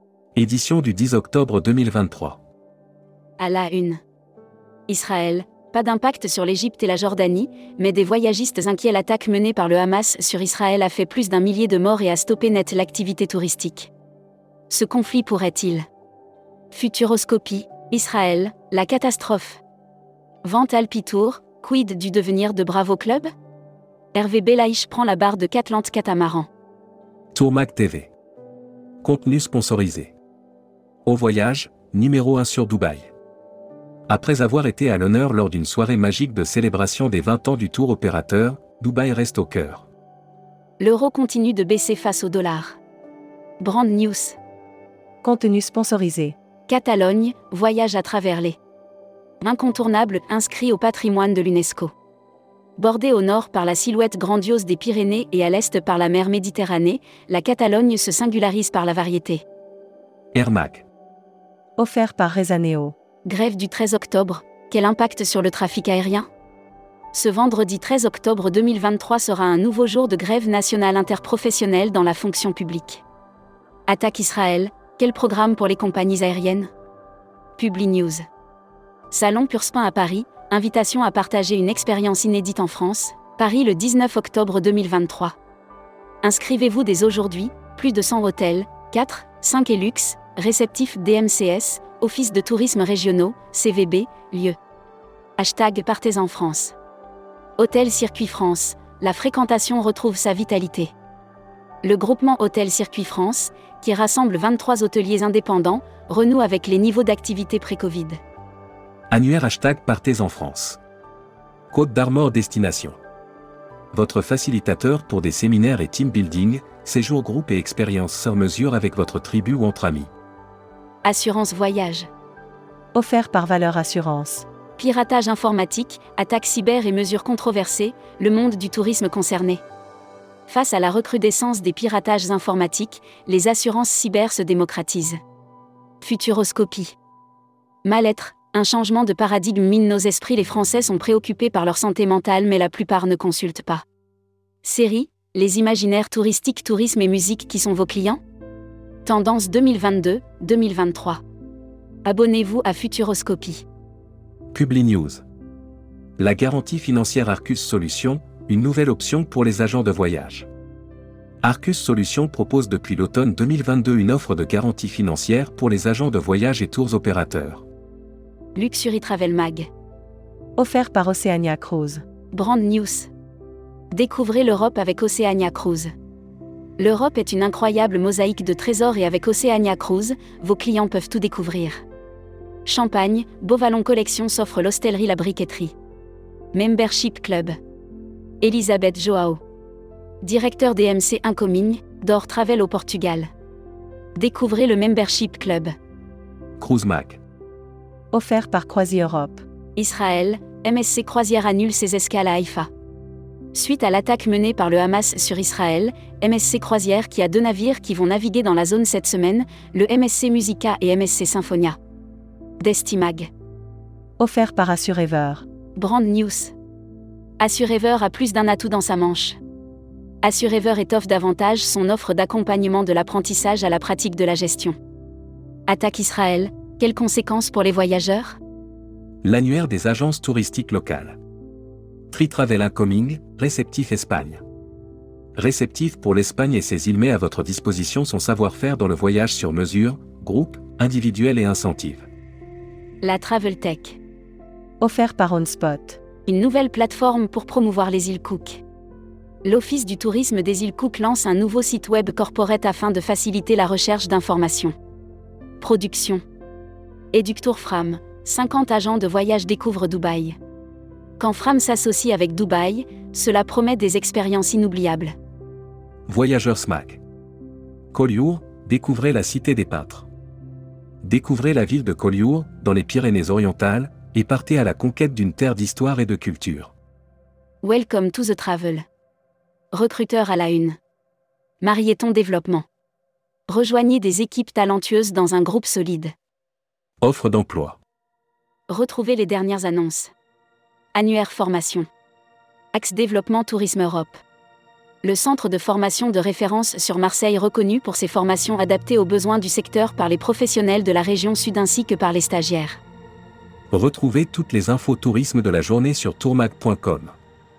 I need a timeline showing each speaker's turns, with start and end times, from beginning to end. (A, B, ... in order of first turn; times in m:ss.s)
0:00.4-0:02.4 A
0:03.4-0:04.0 B
0:04.9-0:13.9 B
0:14.7-0:15.9 B
0:16.7-0:19.6 B
0:20.4-0:23.3 B
0:24.1-0:26.5 B
0:27.4-0:28.1 A
0:29.0-0:30.1 A
0:31.1-0:33.1 A
0:34.1-0:39.9 A
0:40.8-0:42.8 B
0:43.6-0:44.4 B
0:45.2-0:46.4 C
0:46.7-0:48.6 B
0:49.4-0:51.9 B
0:52.8-0:59.4 B
1:00.3-1:00.8 A
1:01.8-1:03.0 C
1:03.2-1:06.3 B
1:07.1-1:13.0 B
1:13.9-1:16.7 B
1:17.6-1:18.2 B
1:19.1-1:25.4 B
1:26.2-1:34.6 B
1:35.4-1:36.8 B
1:37.6-1:40.9 B
1:41.8-1:48.2 B
1:49.1-1:50.8 A
1:51.7-1:53.0 A
1:53.9-2:00.1 A
2:01.0-2:02.1 B
2:02.9-2:04.5 C
2:04.8-2:09.6 B
2:10.5-2:15.2 B
2:16.0-2:17.0 B
2:17.8-2:23.8 B
2:24.6-2:28.2 B
2:29.0-2:31.2 B
2:32.0-2:33.6 B
2:34.5-2:35.2 A
2:36.2-2:40.5 A
2:41.4-2:47.6 A
2:48.6-2:49.7 B
2:50.6-2:52.0 C
2:52.3-2:53.1 B
2:53.9-2:55.9 B
2:56.8-3:01.8 B
3:02.6-3:05.7 B
3:06.5-3:07.6 B
3:08.4-3:09.4 B
3:10.2-3:13.3 B
3:14.2-3:15.7 B
3:16.6-3:17.2 A
3:18.1-3:19.4 C
3:19.8-3:22.7 B
3:23.5-3:31.8 B
3:32.6-3:33.3 B
3:34.2-3:35.5 C
3:35.8-3:36.5 B
3:37.4-3:39.4 B
3:40.2-3:44.8 B
3:45.7-3:48.4 B
3:49.2-3:51.2 A
3:52.1-3:54.4 A
3:55.4-4:02.1 A
4:03.0-4:04.0 B
4:04.8-4:06.0 C
4:06.3-4:08.6 B
4:09.4-4:14.7 B
4:15.6-4:16.2 B
4:17.1-4:20.4 B
4:21.2-4:25.2 B
4:26.1-4:27.0 A
4:27.9-4:30.1 A
4:31.0-4:36.7 A
4:37.6-4:38.8 B
4:39.7-4:40.8 B
4:41.6-4:42.6 B
4:43.5-4:46.1 B
4:47.0-4:47.8 A
4:48.7-4:50.1 B
4:50.9-4:51.9 B
4:52.7-4:54.2 B
4:55.0-5:02.8 B
5:03.7-5:07.2 A